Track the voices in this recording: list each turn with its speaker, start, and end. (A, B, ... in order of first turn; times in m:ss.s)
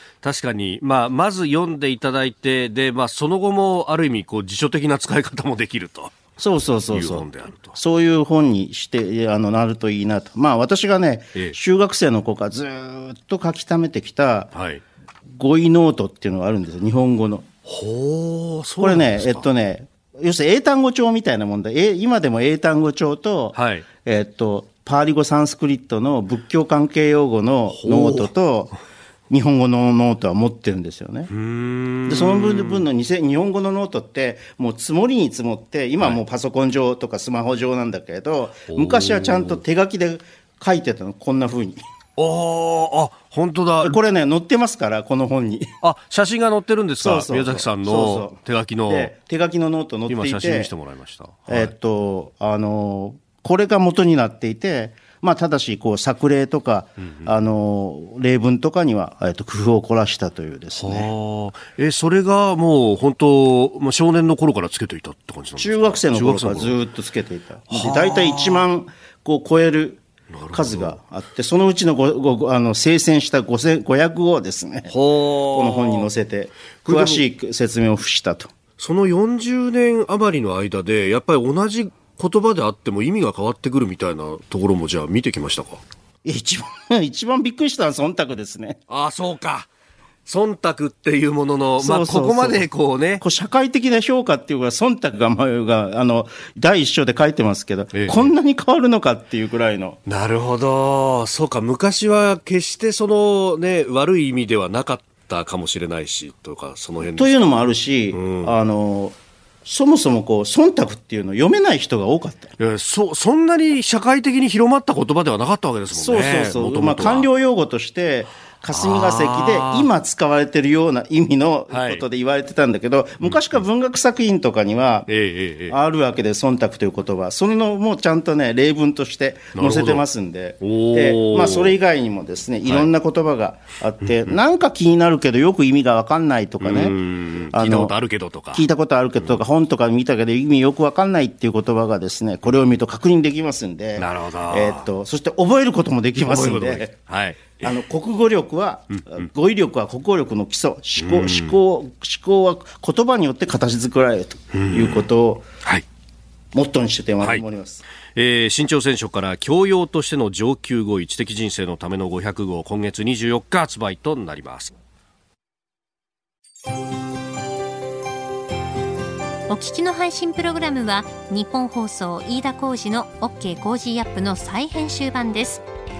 0:00.2-0:06.2 A
0:06.4-0:14.5 B
0:06.9-0:07.8 A
0:14.5-0:14.8 A
0:15.3-0:17.4 B
0:17.6-0:19.4 A
0:18.8-0:28.7 B
0:23.5-0:23.8 A
0:27.7-0:28.3 A
0:29.3-0:31.3 B
0:31.3-0:32.9 A
0:32.0-0:41.8 B
0:38.7-0:39.6 A
0:42.2-0:44.0 A
0:43.8-0:45.7 B
0:45.8-0:49.1 A
0:47.0-0:50.7 B
0:50.1-0:51.7 A
0:51.5-1:01.1 B
0:57.0-0:57.3 A
1:00.8-1:06.7 A
1:05.6-1:10.0 B
1:07.7-1:08.6 A
1:10.3-1:11.0 A
1:10.5-1:14.9 B
1:14.9-1:16.1 A
1:15.5-1:18.5 B
1:16.8-1:17.2 A
1:18.8-1:25.8 A
1:26.2-1:28.8 B
1:28.9-1:29.7 A
1:30.2-1:33.2 A
1:31.8-1:40.0 B
1:37.9-1:38.3 A
1:40.0-1:47.6 A
1:47.2-1:49.1 B
1:48.1-1:48.5 A
1:49.6-1:52.5 B
1:52.6-1:57.3 A
1:55.9-2:05.1 B
1:58.7-1:59.9 A
2:01.7-2:02.0 A
2:05.1-2:05.8 A
2:05.7-2:16.9 B
2:09.5-2:10.0 A
2:10.6-2:11.7 A
2:14.0-2:14.3 A
2:16.6-2:18.6 A
2:17.5-2:17.9 B
2:18.5-2:26.9 B
2:24.0-2:24.9 A
2:26.2-2:27.7 A
2:27.6-2:35.5 B
2:28.9-2:29.2 A
2:31.0-2:31.6 A
2:34.5-2:35.1 A
2:36.5-2:37.8 B
2:38.1-2:44.7 A
2:49.5-2:55.6 C